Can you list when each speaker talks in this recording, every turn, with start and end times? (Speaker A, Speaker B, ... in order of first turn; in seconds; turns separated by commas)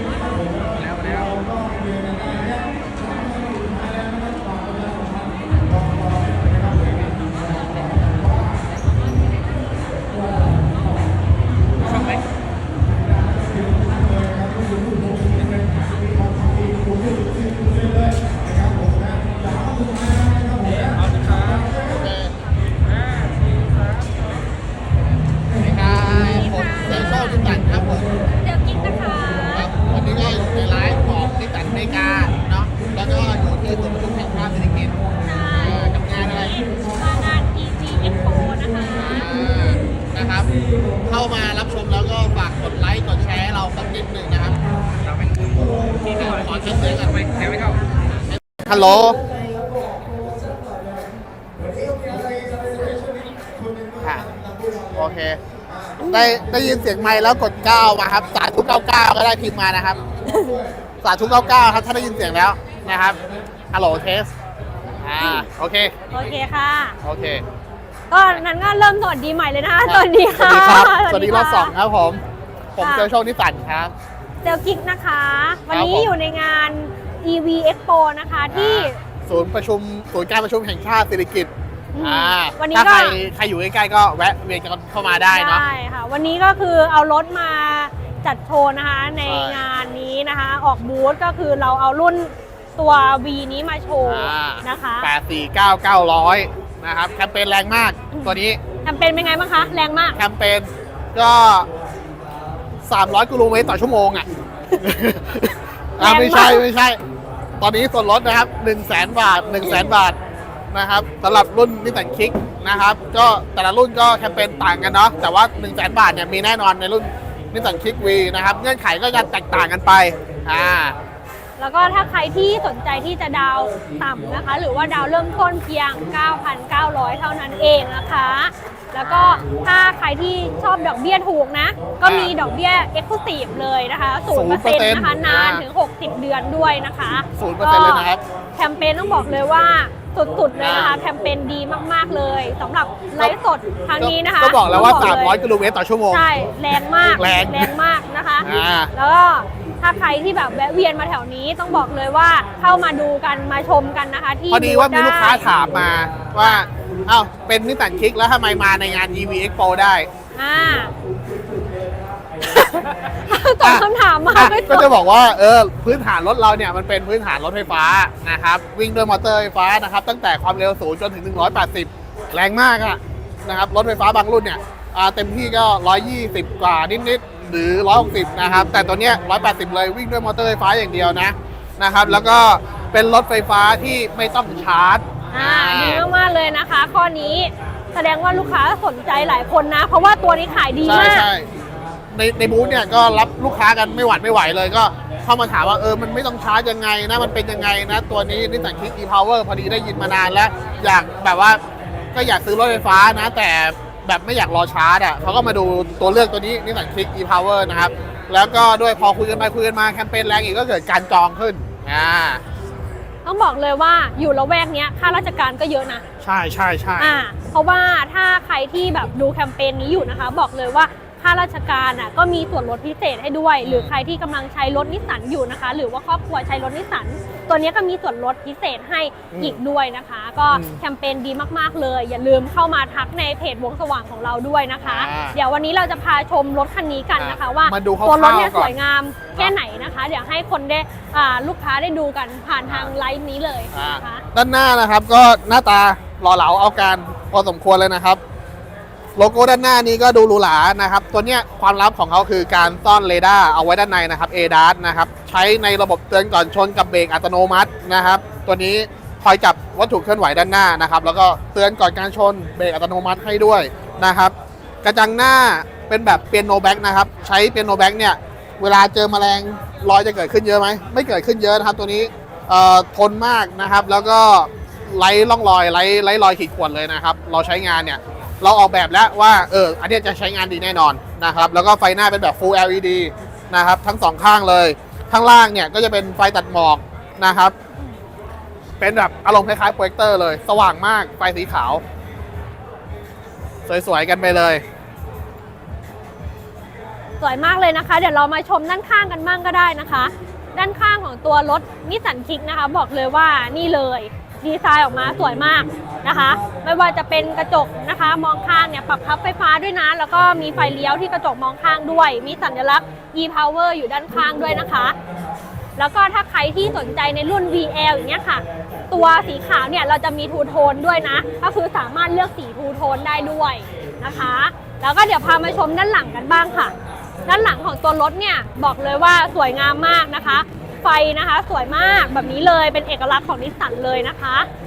Speaker A: 0.3-1.4, Speaker A: 7.0-7.7, Speaker A: 11.9-12.2, Speaker A: 15.3-15.8, Speaker A: 21.0-21.7, Speaker B: 21.9-22.3, Speaker A: 23.0-24.2, Speaker B: 25.6-28.2, Speaker C: 26.2-27.4, Speaker C: 28.4-29.7, Speaker B: 29.5-35.0, Speaker C: 35.2-35.9, Speaker B: 35.6-36.7, Speaker C: 36.7-39.3, Speaker B: 38.9-40.5, Speaker B: 41.0-44.6, Speaker A: 45.0-48.0, Speaker B: 46.1-47.3, Speaker B: 48.3-49.2, Speaker B: 54.9-55.4, Speaker B: 56.0-60.0, Speaker C: 56.0-56.3, Speaker C: 60.2-60.6, Speaker B: 61.0-63.2, Speaker B: 63.7-64.3, Speaker B: 65.0-65.9, Speaker C: 65.2-65.5, Speaker C: 66.1-67.0, Speaker B: 67.0-67.4, Speaker C: 68.1-71.7, Speaker B: 69.8-72.2, Speaker B: 72.8-73.9, Speaker C: 72.8-73.1, Speaker C: 74.4-79.0, Speaker B: 75.7-76.1, Speaker B: 78.5-85.6, Speaker C: 81.9-83.2, Speaker C: 85.3-95.1, Speaker B: 89.2-89.6, Speaker B: 94.0-98.6, Speaker C: 98.1-100.2, Speaker B: 100.2-101.7, Speaker B: 102.8-107.0, Speaker C: 106.0-106.7, Speaker B: 107.6-110.2, Speaker B: 110.7-121.0, Speaker C: 121.6-145.4, Speaker B: 129.0-129.4, Speaker B: 132.0-132.3, Speaker B: 134.3-135.7, Speaker B: 137.3-138.2, Speaker B: 140.6-140.9, Speaker B: 144.0-146.2, Speaker C: 146.1-155.5, Speaker B: 147.0-147.7, Speaker B: 148.4-148.9, Speaker B: 154.5-160.1, Speaker C: 156.3-156.7, Speaker C: 160.3-160.9, Speaker C: 163.0-164.9, Speaker B: 163.6-186.0, Speaker C: 185.3-191.3, Speaker B: 190.8-191.5, Speaker B: 192.1-201.6, Speaker B: 202.1-212.4, Speaker C: 213.2-216.0, Speaker B: 216.2-217.2, Speaker C: 217.0-244.2, Speaker B: 223.6-223.9, Speaker B: 229.3-229.6, Speaker B: 230.5-230.8, Speaker B: 234.8-235.4, Speaker B: 237.2-238.7, Speaker B: 242.7-242.9, Speaker B: 243.7-248.2, Speaker B: 249.2-287.6, Speaker B: 288.8-291.8, Speaker B: 293.6-294.6, Speaker C: 297.2-314.9, Speaker C: 315.8-326.7, Speaker C: 327.2-334.5